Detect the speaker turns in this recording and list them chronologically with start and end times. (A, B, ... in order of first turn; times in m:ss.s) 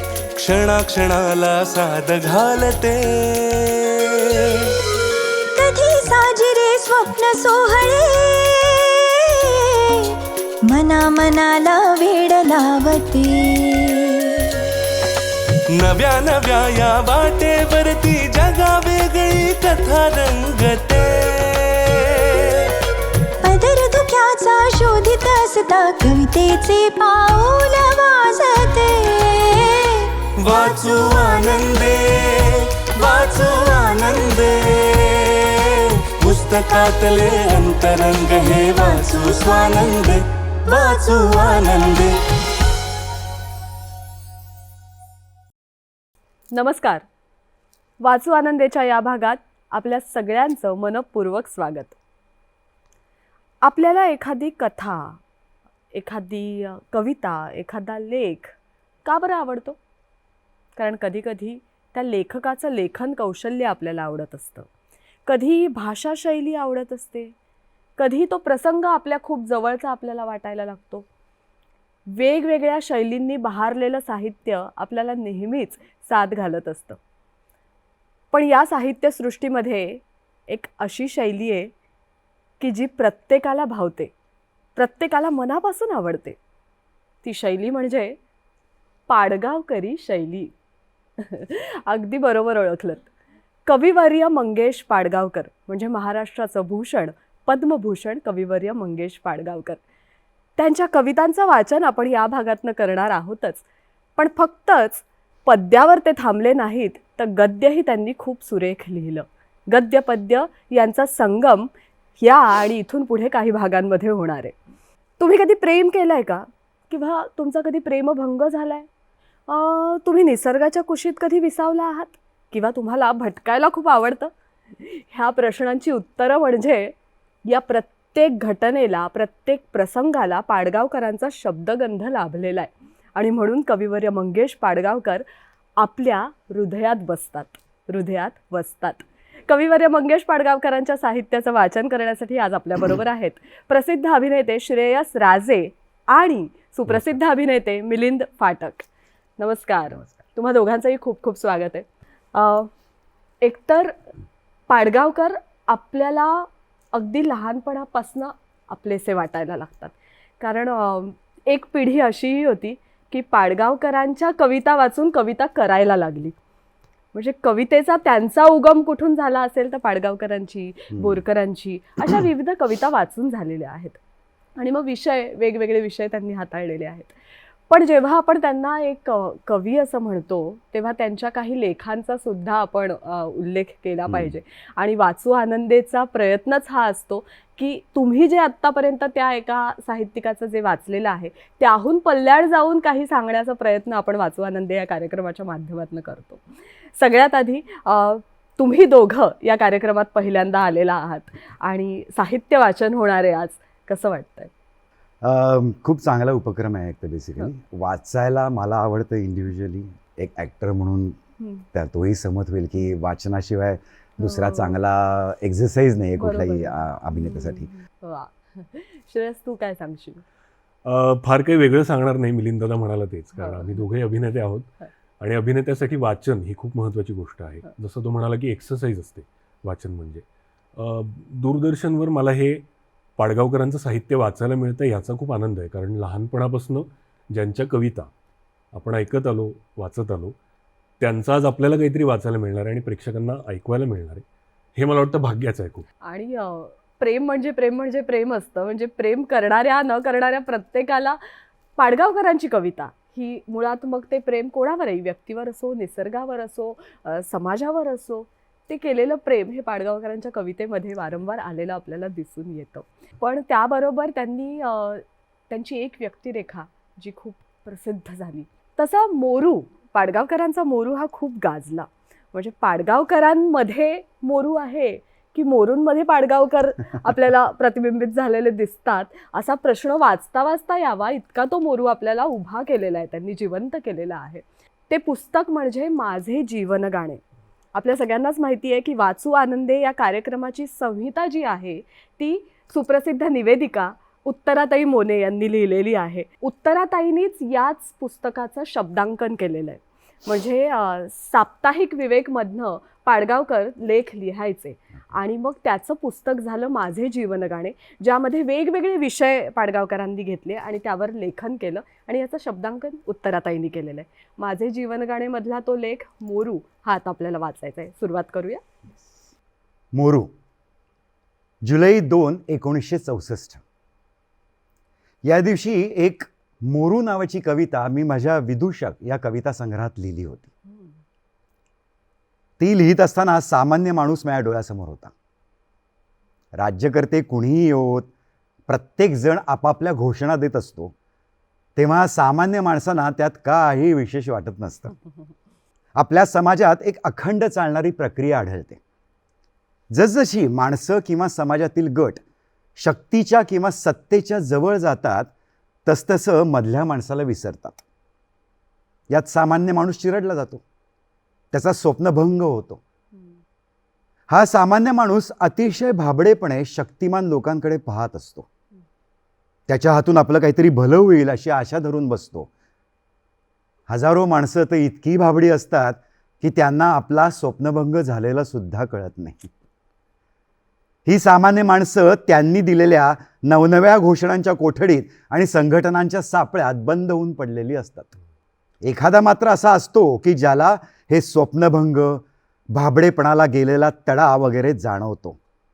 0:00.4-0:04.7 A
0:05.5-0:14.7 B
0:15.7-0:22.7 A
0:23.4-0:30.2 B
0:30.4-0:42.2 A
0:46.5-0:47.0 C
0:48.0-0:51.9 C
0:53.6-0:55.2 C
0:55.9-0:59.8 C
1:00.8-1:04.7 C
1:05.2-1:07.3 C
1:08.0-1:11.0 C
1:12.1-1:17.0 C
1:18.3-1:21.7 C
1:22.6-1:24.1 C
1:24.8-1:26.4 C
1:27.2-1:28.2 C
1:29.1-1:30.5 C
1:31.2-1:33.1 C
1:33.6-1:39.8 C
1:40.6-1:43.6 C
1:44.2-1:54.5 C
1:55.2-1:58.9 C
1:59.5-2:06.9 C
2:07.4-2:15.2 C
2:15.8-2:28.8 C
2:29.4-2:32.7 C
2:33.4-2:34.0 C
2:34.7-2:46.4 C
2:47.1-2:54.0 C
2:50.9-2:51.2 D
2:54.6-2:57.1 C
2:57.7-3:16.4 C
3:04.1-3:04.4 D
3:17.0-3:24.5 C
3:25.2-3:31.2 D
3:31.7-3:37.7 D
3:34.2-3:34.8 C
3:36.2-3:40.2 C
3:40.8-3:50.2 E
3:43.4-3:43.8 C
3:50.8-3:52.6 E
3:53.2-3:58.1 E
3:58.7-4:00.4 E
4:01.0-4:04.2 E
4:04.8-4:05.8 E
4:06.0-4:11.2 C
4:11.8-4:47.2 C
4:47.7-5:18.6 C
5:19.9-5:20.3 D
5:21.6-5:23.6 D
5:25.2-5:30.5 D
5:32.6-5:35.1 D
5:36.6-5:38.1 D
5:38.7-5:40.9 D
5:41.8-5:44.9 D
5:46.0-5:48.8 D
5:49.9-5:52.2 D
5:52.8-5:55.3 D
5:55.8-5:57.8 D
5:59.1-6:00.6 D
6:01.5-6:02.8 D
6:04.3-6:08.5 D
6:09.7-6:12.5 D
6:13.9-6:19.5 D
6:21.0-6:28.1 D
6:28.8-6:35.4 D